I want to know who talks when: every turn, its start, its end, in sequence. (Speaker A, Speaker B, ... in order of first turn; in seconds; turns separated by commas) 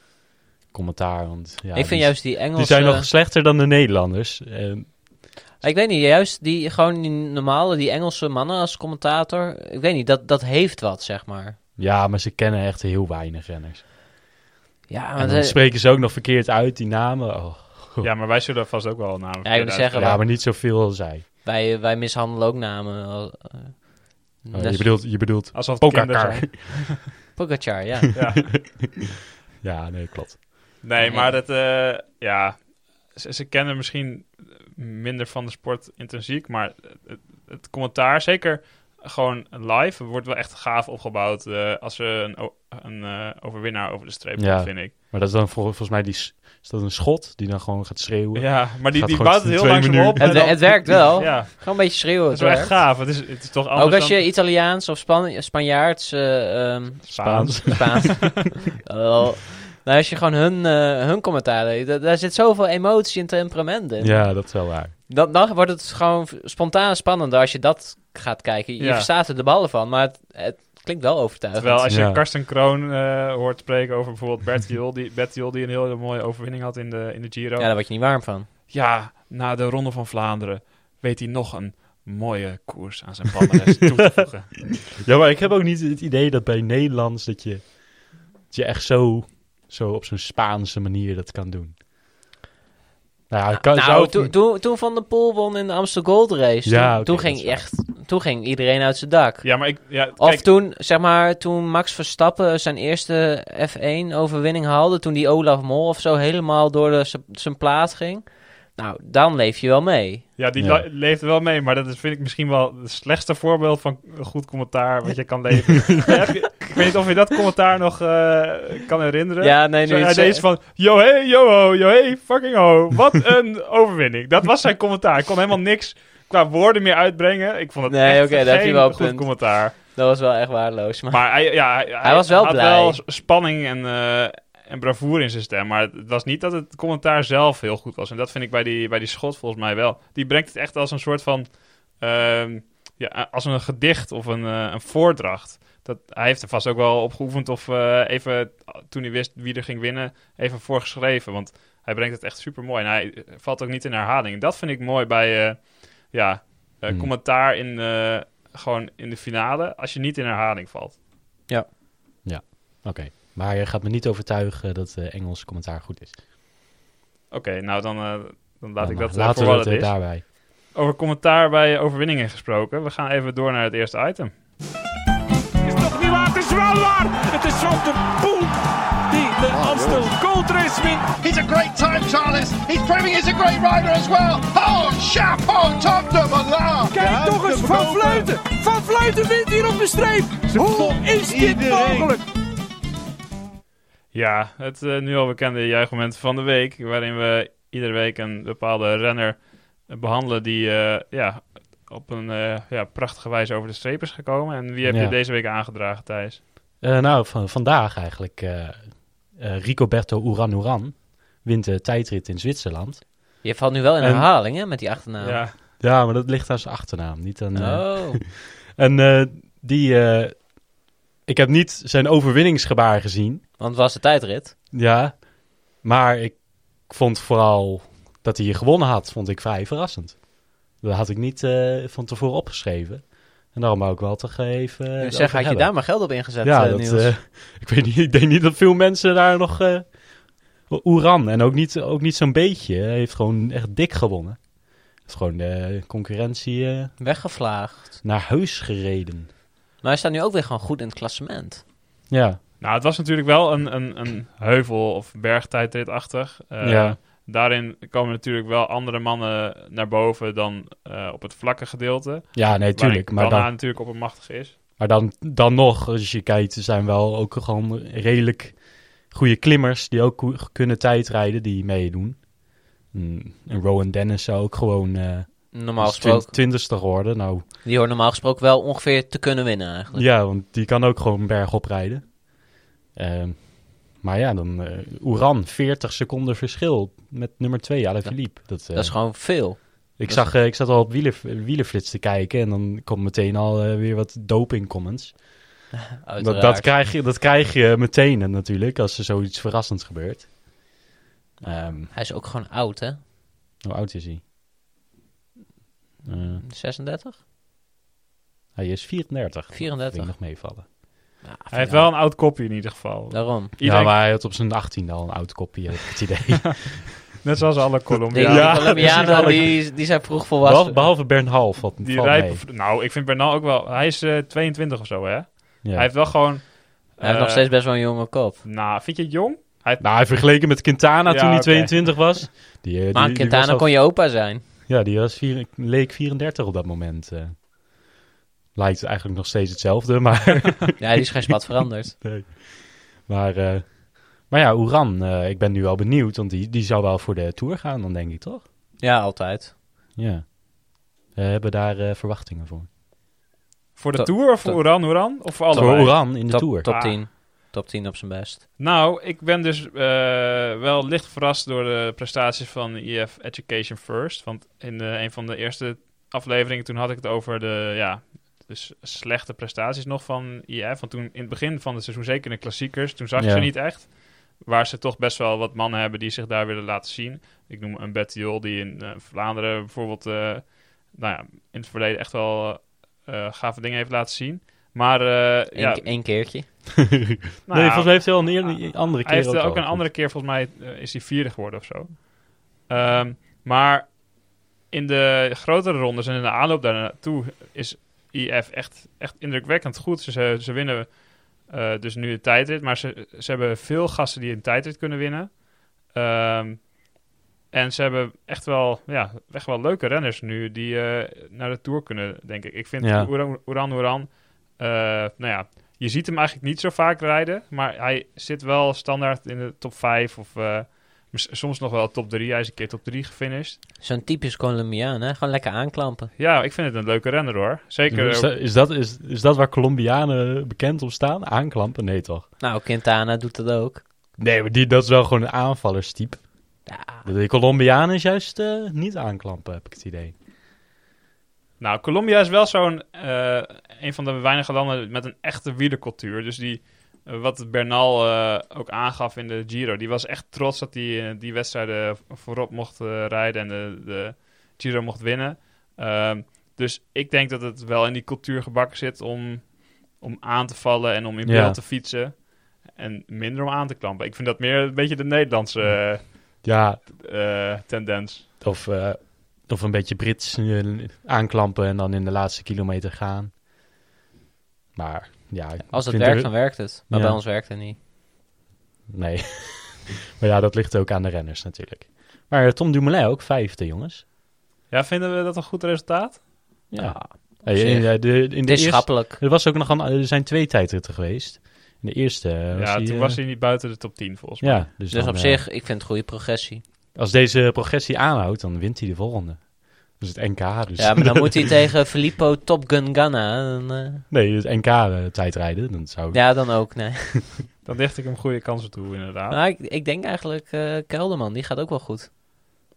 Speaker A: 0.7-5.0, Speaker B: 1.7-3.1, Speaker B: 5.6-11.6, Speaker A: 11.8-13.8, Speaker B: 14.9-15.6, Speaker A: 15.2-18.1, Speaker C: 18.0-20.2, Speaker B: 19.4-20.2, Speaker A: 19.9-21.2, Speaker B: 21.4-24.9, Speaker A: 24.5-27.0, Speaker C: 25.5-27.0, Speaker B: 27.3-28.2, Speaker C: 28.1-28.5, Speaker A: 28.4-29.0, Speaker A: 29.6-30.4, Speaker C: 30.8-44.9, Speaker B: 31.0-31.3, Speaker A: 44.4-50.9, Speaker C: 48.3-54.2, Speaker B: 50.2-53.0, Speaker B: 53.8-71.9, Speaker C: 57.1-58.2, Speaker A: 57.2-58.1, Speaker A: 64.0-64.9, Speaker C: 68.8-69.1, Speaker C: 71.6-77.9, Speaker A: 71.9-72.2, Speaker B: 77.6-78.5, Speaker C: 78.5-84.8, Speaker A: 84.9-91.8, Speaker A: 93.3-94.3, Speaker B: 93.5-110.2, Speaker A: 96.6-97.7, Speaker C: 99.4-100.5, Speaker C: 110.4-129.8, Speaker A: 110.6-110.8, Speaker B: 119.4-120.4, Speaker B: 127.9-133.0, Speaker C: 131.1-161.0, Speaker A: 162.2-166.2, Speaker C: 167.3-174.4, Speaker A: 168.8-170.2, Speaker D: 175.6-181.1, Speaker E: 179.5-180.1, Speaker E: 181.1-188.3, Speaker D: 186.9-192.2, Speaker E: 190.5-192.1, Speaker C: 194.1-206.4, Speaker A: 204.8-205.2, Speaker A: 206.8-213.5, Speaker B: 213.4-215.4, Speaker A: 214.0-214.3, Speaker C: 215.2-215.5, Speaker A: 215.8-223.4, Speaker B: 217.5-218.2, Speaker B: 223.6-224.5, Speaker A: 224.7-247.0, Speaker B: 235.0-237.1, Speaker B: 247.0-248.0, Speaker A: 248.0-249.3, Speaker B: 249.8-251.6, Speaker A: 252.1-252.4, Speaker C: 252.6-264.6, Speaker A: 256.6-257.0, Speaker A: 262.3-263.5, Speaker A: 264.8-277.4, Speaker B: 275.5-276.4, Speaker B: 277.6-280.1, Speaker A: 279.9-295.7, Speaker B: 288.0-290.3, Speaker B: 296.0-296.7, Speaker A: 296.2-300.7, Speaker A: 301.4-301.9, Speaker B: 301.9-303.0, Speaker A: 303.6-304.2, Speaker A: 306.0-306.4, Speaker B: 306.4-307.2, Speaker A: 308.6-310.7, Speaker B: 309.5-310.2, Speaker B: 311.2-311.9, Speaker C: 311.5-314.0, Speaker B: 313.1-313.5, Speaker A: 313.6-317.1, Speaker C: 317.1-319.5, Speaker A: 318.1-322.4, Speaker B: 318.1-320.8, Speaker C: 321.8-327.5, Speaker A: 325.6-325.9, Speaker B: 327.0-328.4, Speaker C: 328.4-330.0, Speaker A: 329.8-334.0, Speaker C: 331.1-332.2, Speaker B: 332.9-334.4, Speaker A: 334.6-337.5, Speaker A: 338.5-341.3, Speaker B: 340.8-341.9, Speaker A: 342.0-348.4, Speaker B: 348.8-349.5, Speaker A: 350.0-352.7, Speaker C: 353.8-357.0, Speaker B: 353.9-358.4, Speaker A: 355.5-356.8, Speaker C: 358.6-385.9, Speaker A: 373.2-373.5, Speaker B: 385.5-386.5, Speaker A: 387.1-389.9, Speaker C: 387.5-406.9, Speaker C: 407.5-423.6, Speaker A: 412.8-413.1, Speaker B: 423.8-426.1, Speaker C: 426.2-428.3, Speaker A: 427.9-432.3, Speaker B: 432.4-433.8, Speaker A: 434.2-440.1, Speaker B: 436.7-437.0, Speaker C: 441.6-468.2, Speaker A: 461.2-461.6, Speaker A: 465.6-466.8, Speaker A: 468.4-473.4, Speaker A: 474.7-477.2, Speaker B: 475.7-477.8, Speaker A: 478.9-484.0, Speaker C: 484.7-486.3, Speaker A: 486.7-493.2, Speaker B: 486.8-489.2, Speaker C: 492.5-494.7, Speaker A: 494.4-495.4, Speaker B: 494.9-496.6, Speaker A: 496.9-501.5, Speaker B: 500.8-504.0, Speaker A: 504.1-506.9, Speaker B: 506.1-507.3, Speaker C: 507.6-509.4, Speaker B: 509.3-512.1